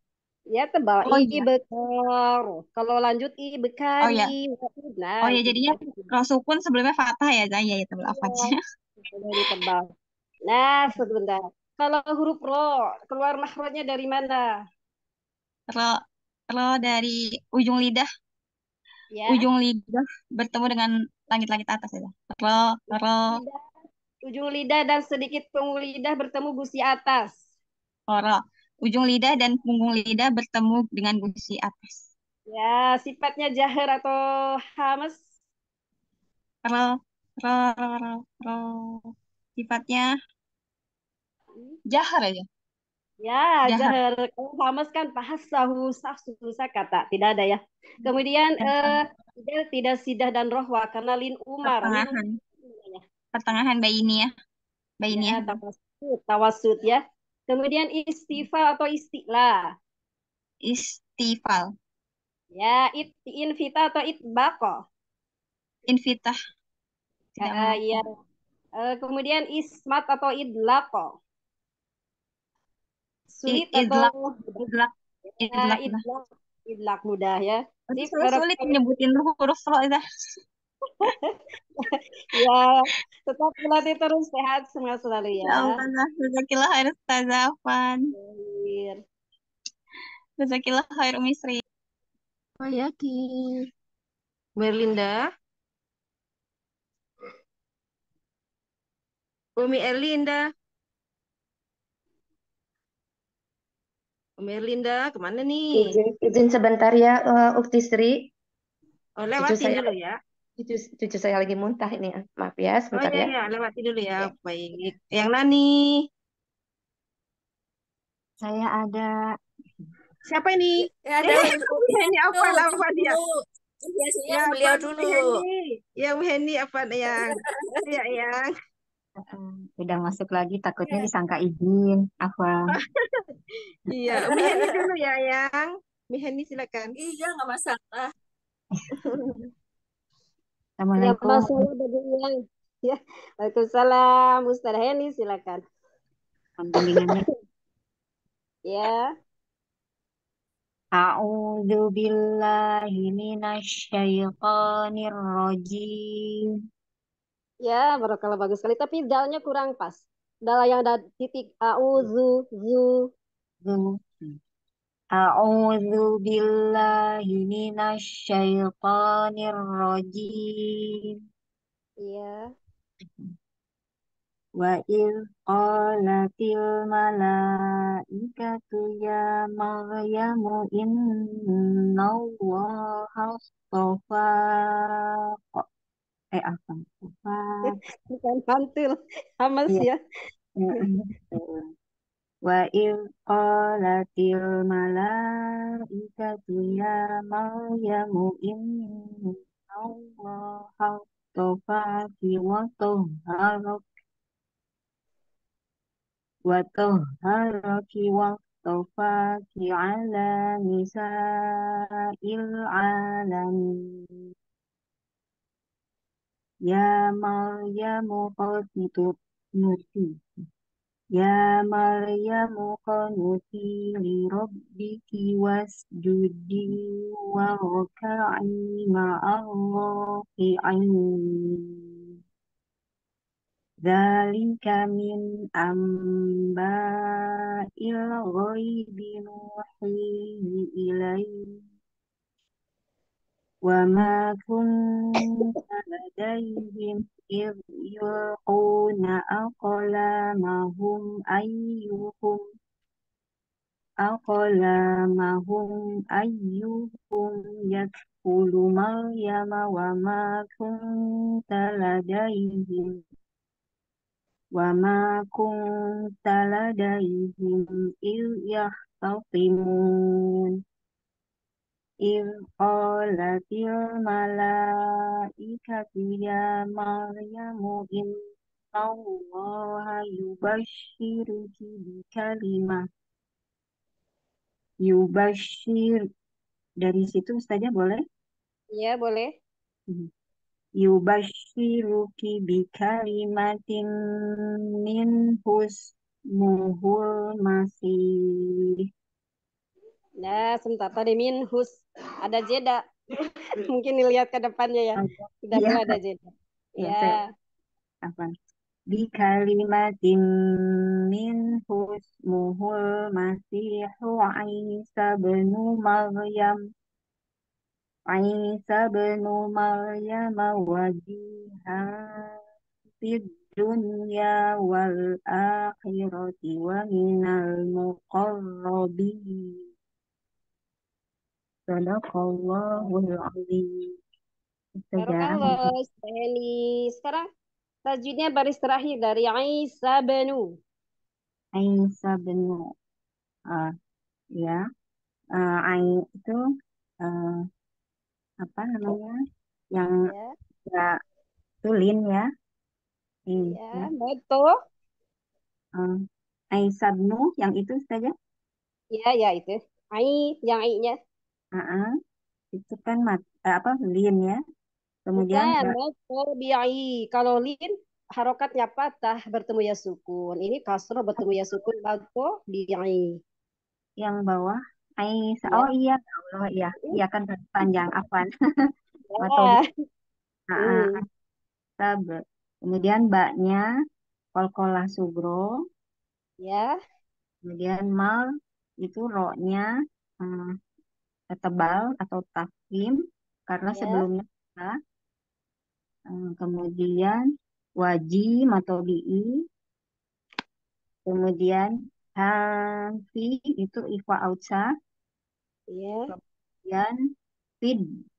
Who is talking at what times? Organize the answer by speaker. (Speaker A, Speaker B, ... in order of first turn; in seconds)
Speaker A: 0.5-6.0, 8.1-8.5, 9.1-9.9, 10.5-14.4, 19.1-19.4, 23.3-23.6, 24.3-27.4, 32.5-34.2, 34.8-35.2, 43.2-53.0, 55.1-59.6, 62.5-64.8, 67.4-68.0, 68.8-71.1, 73.3-74.6, 75.5-78.8, 81.8-85.8, 88.1-89.0, 141.0-142.3, 142.8-145.6, 148.7-149.1, 157.6-163.1, 172.0-172.5, 187.7-190.0, 288.8-289.3, 300.2-302.8, 303.6-306.3, 306.8-307.2, 335.0-337.2, 337.9-340.4, 350.1-350.3, 353.5-354.5, 358.9-360.9, 365.2-373.2, 379.1-379.6, 380.6-380.9, 386.4-386.7, 393.7-394.0, 405.7-406.1
Speaker B: 1.0-1.4, 4.0-4.3, 5.2-8.6, 15.7-16.0, 16.5-18.1, 19.3-23.4, 28.1-32.1, 36.6-39.0, 39.6-40.1, 41.9-42.4, 43.7-43.9, 48.6-48.9, 51.7-52.3, 53.3-54.3, 55.0-55.6, 60.6-61.7, 65.9-66.3, 67.4-68.0, 73.5-74.1, 74.7-76.0, 77.9-80.0, 85.4-88.0, 90.4-91.6
Speaker C: 92.6-93.5, 94.6-95.2, 99.6-100.4, 104.4-105.9, 109.2-110.2, 112.9-115.7, 120.3-123.2, 124.3-128.5, 133.9-137.0
Speaker D: 105.8-108.2, 109.4-109.9, 110.6-113.3
Speaker E: 118.4-119.1, 129.3-132.5, 140.8-141.6, 146.6-147.2, 151.0-156.3, 163.6-164.0, 165.2-170.6, 174.6-177.4, 178.2-180.9, 182.0-184.4, 186.4-187.5, 190.8-191.6, 192.4-195.1, 196.1-198.8, 199.7-203.8, 206.5-211.1, 212.3-213.6, 216.7-220.0, 221.2-226.7, 228.3-229.9, 230.4-231.0, 233.9-235.1, 237.9-239.3, 240.9-241.2, 243.7-244.6, 246.2-252.3, 254.1-255.7, 256.2-260.6, 261.5-262.9, 264.6-265.5, 266.3-267.5, 268.1-269.8, 272.1-274.6, 275.7-278.1, 278.8-282.8, 284.8-285.9, 286.8-288.0, 290.8-293.8, 294.9-295.8, 296.3-298.0, 305.0-305.8, 306.9-307.1, 308.9-310.2, 311.2-316.5, 318.1-322.0, 323.0-329.2, 331.7-333.8, 334.9-335.5, 341.5-342.6, 345.4-346.4, 347.0-347.4, 348.4-349.1, 351.6-352.2, 353.3-353.6, 356.5-358.1, 361.6-361.8, 362.5-364.4, 365.1-365.6, 374.0-378.3, 379.2-379.5, 380.6-380.9, 381.8-383.6, 384.4-385.5, 387.4-388.2, 388.8-389.6, 391.3-392.9, 393.5-394.7, 396.1-397.2, 397.8-399.3, 401.1-404.6, 406.6-406.9
Speaker F: 121.0-123.4, 123.9-125.4, 127.1-127.4, 134.1-134.8, 136.9-138.1